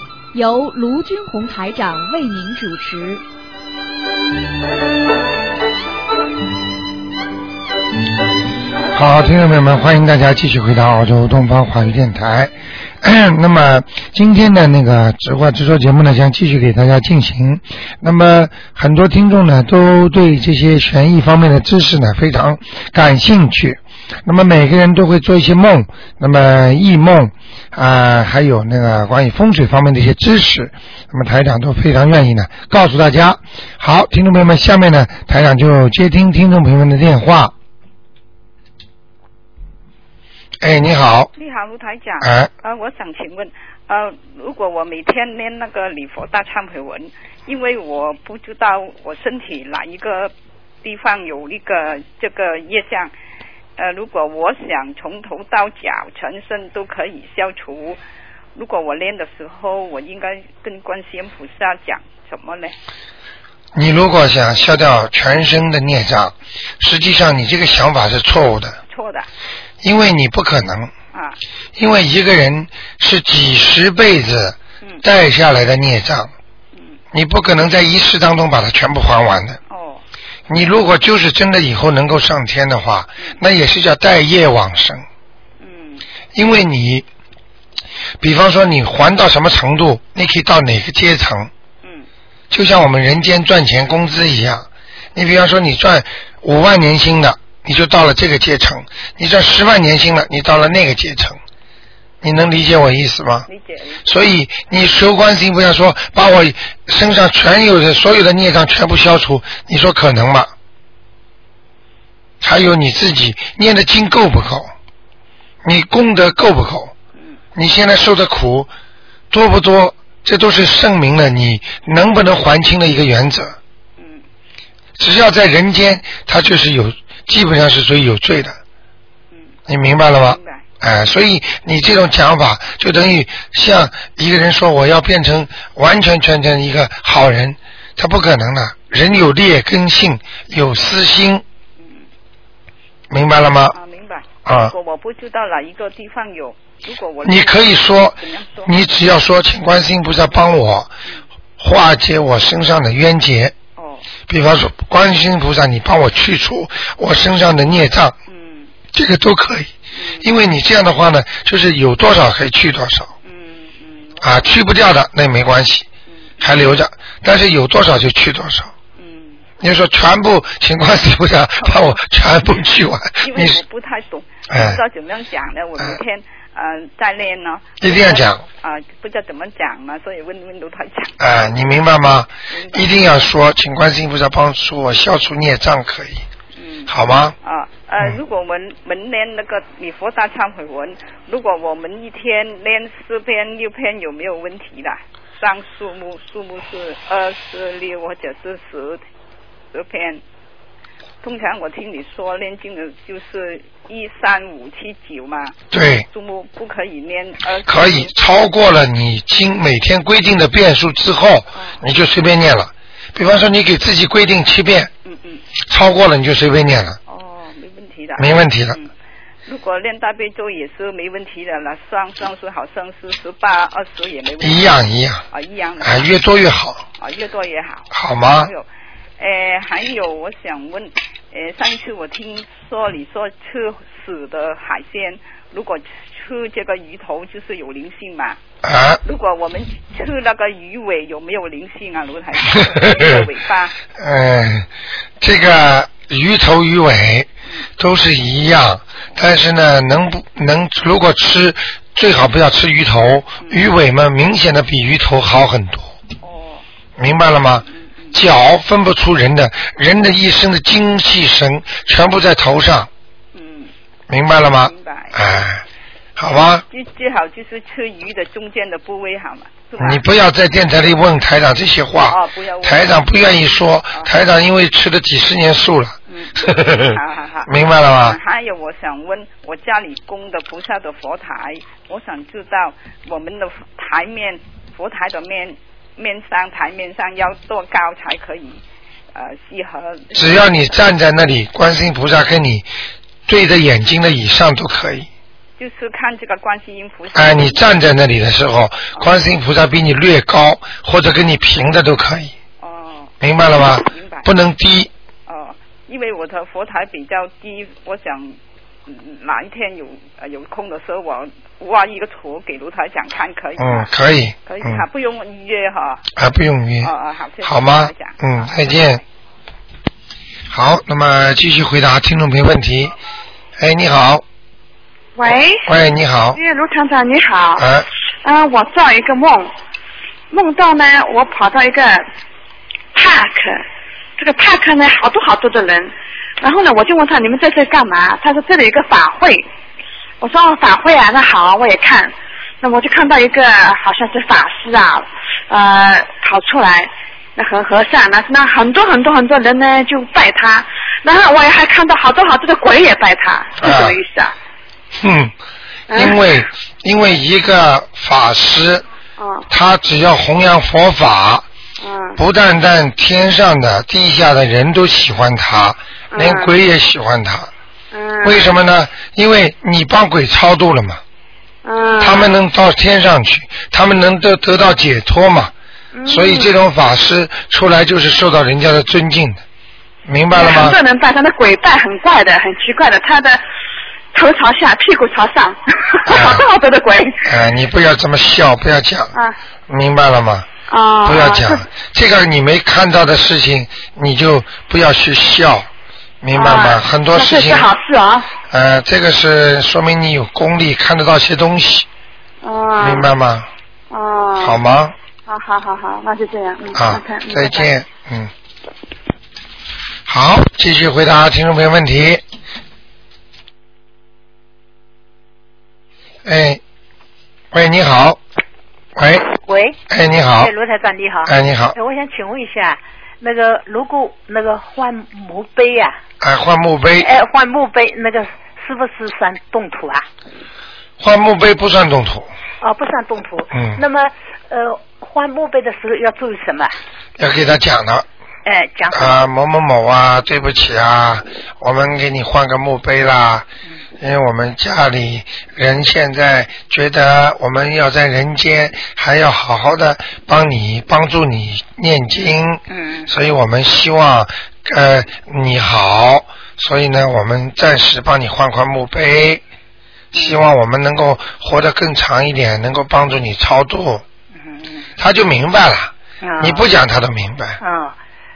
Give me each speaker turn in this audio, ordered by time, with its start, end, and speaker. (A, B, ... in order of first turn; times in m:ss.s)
0:00.3-0:03.2 A
0:08.9-0:37.5 B
0:40.6-0:41.3 B
0:41.4-0:50.3 C
0:42.2-0:42.5 B
0:50.8-0:53.1 C
0:53.8-0:58.0 C
0:58.6-1:02.8 C
1:03.8-1:08.8 B
1:08.9-1:09.3 C
1:09.8-1:10.9 B
1:11.1-1:11.4 C
1:11.8-1:16.3 B
1:17.1-1:19.6 B
1:19.7-1:20.0 C
1:20.5-1:25.0 B
1:25.6-1:26.0 C
1:26.4-1:27.1 B
1:28.2-1:31.5 B
1:32.5-1:41.4 B
1:42.2-1:43.5 B
1:43.5-1:44.0 C
1:44.0-1:50.5 B
1:52.4-1:54.7 B
1:55.6-1:56.9 B
1:57.6-1:58.7 B
1:59.3-2:03.6 B
2:04.0-2:04.2 C
2:05.0-2:08.6 B
2:09.7-2:21.4 B
2:10.1-2:10.6 C
2:21.8-2:22.0 C
2:23.1-2:23.8 B
2:23.7-2:28.8 C
2:24.4-2:24.8 B
2:27.2-2:30.9 B
2:31.6-2:33.6 B
2:33.8-2:34.0 C
2:34.3-2:38.2 B
2:38.3-2:38.7 C
2:38.9-2:43.1 B
2:40.0-2:40.3 C
2:43.2-2:44.6 C
2:44.2-2:45.9 B
2:46.1-2:46.6 C
2:46.4-2:48.7 B
2:49.0-2:49.4 C
2:49.6-2:53.6 B
2:51.6-2:52.0 C
2:53.2-3:01.8 C
2:54.5-2:54.8 B
2:57.8-2:58.4 B
3:01.2-3:06.2 B
3:02.5-3:03.0 C
3:06.6-3:19.0 C
3:06.9-3:07.4 B
3:19.7-3:20.2 C
3:21.2-3:28.1 C
3:25.7-3:26.1 B
3:27.7-3:34.9 B
3:31.6-3:31.8 C
3:35.0-3:35.4 C
3:35.7-3:37.0 B
3:37.1-3:38.9 C
3:38.2-3:38.8 B
3:39.5-3:46.1 C
3:44.4-3:45.2 B
3:45.8-3:46.8 B
3:47.0-3:48.7 C
3:47.9-3:48.5 B
3:49.2-3:58.4 C
3:58.6-3:59.0 B
3:59.0-4:03.8 C
4:02.5-4:03.3 B
4:04.0-4:04.7 B
4:05.2-4:16.0 B
4:13.4-4:13.7 C
4:16.2-4:16.6 C
4:17.0-4:22.9 B
4:17.8-4:18.2 C
4:23.3-4:23.7 C
4:24.1-4:25.6 B
4:24.6-4:25.2 C
4:26.2-4:26.6 B
4:26.7-4:30.0 C
4:29.8-4:38.2 B
4:32.0-4:33.2 C
4:36.1-4:48.6 C
4:49.1-4:50.5 C
4:50.1-4:52.7 B
4:53.3-4:55.1 B
4:55.6-4:57.7 C
4:57.1-5:02.3 B
4:59.0-4:59.2 C
5:02.6-5:04.3 C
5:03.2-5:04.9 B
5:05.3-5:13.9 C
5:13.6-5:14.8 B
5:14.5-5:16.1 C
5:16.2-5:16.9 B
5:16.8-5:19.0 C
5:17.4-5:19.0 B
5:20.5-5:23.0 B
5:23.6-5:24.2 B
5:25.2-5:25.7 D
5:25.6-5:26.4 B
5:26.3-5:27.7 D
5:27.6-5:27.9 B
5:28.2-5:29.5 D
5:30.3-5:32.1 D
5:32.9-5:33.6 D
5:34.2-5:39.5 D
5:40.2-5:54.3 D
5:53.6-5:54.0 B
5:55.0-5:55.3 B
5:55.9-5:56.4 D
5:55.9-5:58.8 B
5:59.2-5:59.5 D
5:59.5-6:01.4 B
6:01.8-6:02.2 D
6:02.2-6:07.5 B
6:06.1-6:06.6 D
6:07.9-6:08.6 D
6:08.2-6:11.0 B
6:11.6-6:12.4 D
6:12.0-6:15.5 B
6:15.9-6:16.5 D
6:16.1-6:19.4 B
6:20.1-6:20.8 B
6:20.3-6:23.4 D
6:24.1-6:27.4 D
6:26.1-6:26.4 B
6:27.2-6:29.1 B
6:29.7-6:30.5 B
6:30.7-6:31.7 D
6:31.0-6:35.7 B
6:36.2-6:37.7 B
6:36.3-6:38.3 D
6:38.5-6:41.9 B
6:42.4-6:43.1 D
6:42.8-6:43.5 B
6:43.9-6:44.6 D
6:44.4-6:45.0 B
6:45.3-6:47.7 D
6:46.8-6:48.3 B
6:50.1-6:52.2 B
6:56.2-6:56.6 B
6:57.5-6:58.2 B
6:59.0-6:59.3 B
6:59.5-6:59.8 E
6:59.9-7:00.5 B
7:00.4-7:06.0 E
7:01.3-7:01.8 B
7:06.2-7:07.1 B
7:07.0-7:10.0 E
7:11.0-7:12.3 B
7:12.6-7:16.7 E
7:13.5-7:13.8 B
7:17.2-7:18.1 B
7:18.4-7:19.2 E
7:18.9-7:23.5 B
7:24.0-7:39.4 B
7:32.7-7:33.1 E
7:40.1-7:40.4 E
7:40.1-7:44.0 B
7:44.4-7:44.9 E
7:45.0-7:47.6 B
7:46.2-7:46.7 E
7:47.6-7:48.0 E